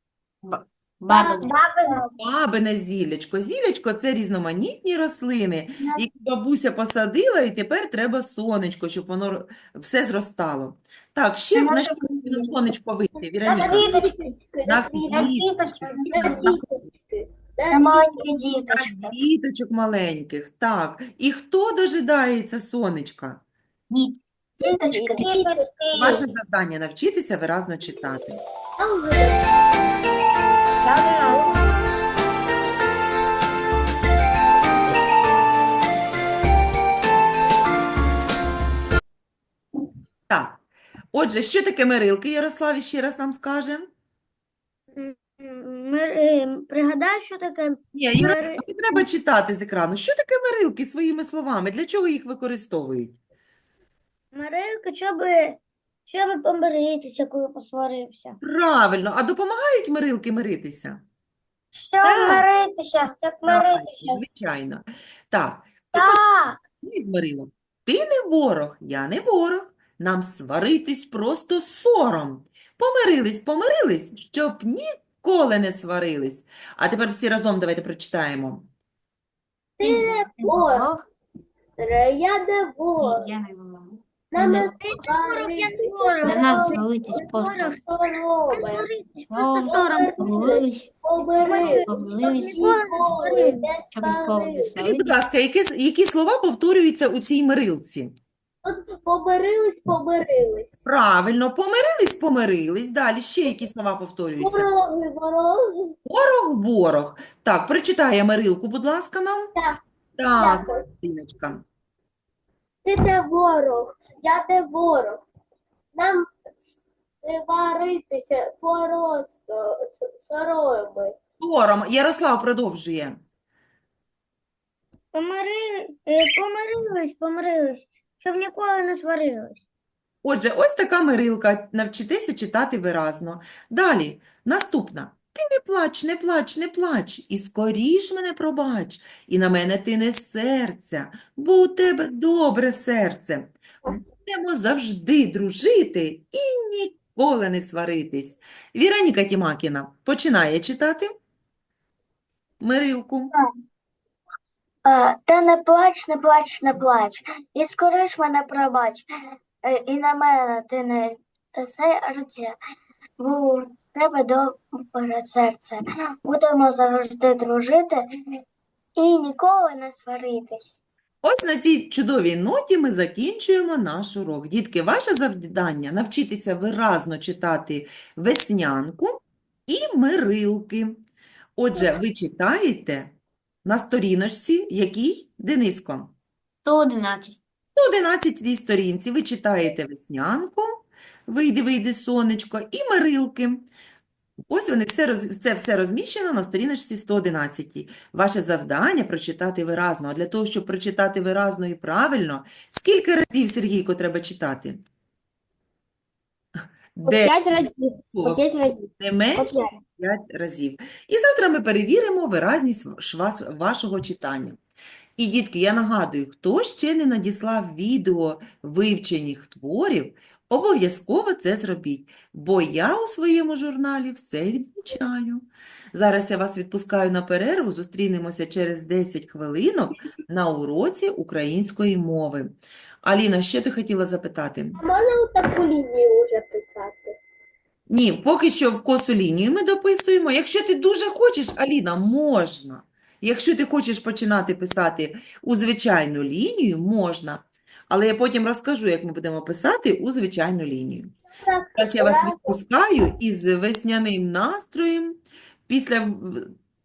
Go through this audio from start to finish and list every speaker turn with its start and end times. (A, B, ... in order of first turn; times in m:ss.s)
0:00.4-0:01.5 A
0:01.6-0:02.0 B
0:02.2-0:14.0 C
0:11.6-0:12.6 D
0:13.4-0:15.3 E
0:14.6-0:16.6 C
0:15.1-0:16.4 D
0:15.9-0:18.3 E
0:17.7-0:19.1 D
0:18.7-0:23.4 C
0:24.6-0:26.2 D
0:24.7-0:26.2 E
0:25.9-0:28.4 C
0:28.8-0:29.4 E
0:30.8-0:31.5 A
0:31.0-0:31.6 E
0:40.3-0:40.6 C
0:41.1-0:43.9 C
0:44.9-0:49.0 B
0:47.9-0:53.2 C
0:54.3-0:58.4 B
0:58.4-1:01.0 C
1:01.7-1:04.2 B
1:03.4-1:06.2 C
1:05.9-1:06.6 B
1:06.8-1:18.7 C
1:19.8-1:20.9 E
1:19.8-1:21.0 A
1:21.8-1:23.3 E
1:23.0-1:24.7 A
1:24.3-1:28.9 E
1:24.4-1:27.8 B
1:26.2-1:27.8 A
1:28.5-1:30.6 B
1:29.3-1:35.2 A
1:29.6-1:34.8 E
1:31.4-1:33.7 B
1:34.8-1:38.1 C
1:38.6-1:40.7 E
1:40.8-1:44.7 C
1:44.4-1:46.0 E
1:46.0-1:49.5 C
1:50.2-1:51.6 C
1:50.3-1:50.9 E
1:52.8-1:55.2 E
1:55.9-1:56.3 E
1:57.2-2:01.2 E
2:01.4-2:03.2 C
2:05.1-2:09.6 B
2:10.2-2:23.5 C
2:24.2-2:31.1 C
2:32.6-2:33.3 C
2:34.8-2:39.1 D
2:39.6-2:42.6 D
2:43.2-2:48.1 D
2:49.0-2:50.8 D
2:51.2-3:01.0 C
3:01.6-3:03.1 C
3:03.6-3:06.1 C
3:06.6-3:07.4 A
3:07.8-3:13.7 C
3:14.5-3:24.8 C
3:27.0-3:28.4 C
3:27.0-3:29.7 F
3:29.0-3:34.6 C
3:35.2-3:54.8 C
3:54.8-3:57.2 E
3:57.9-4:11.2 C
4:11.3-4:12.6 E
4:11.8-4:16.5 C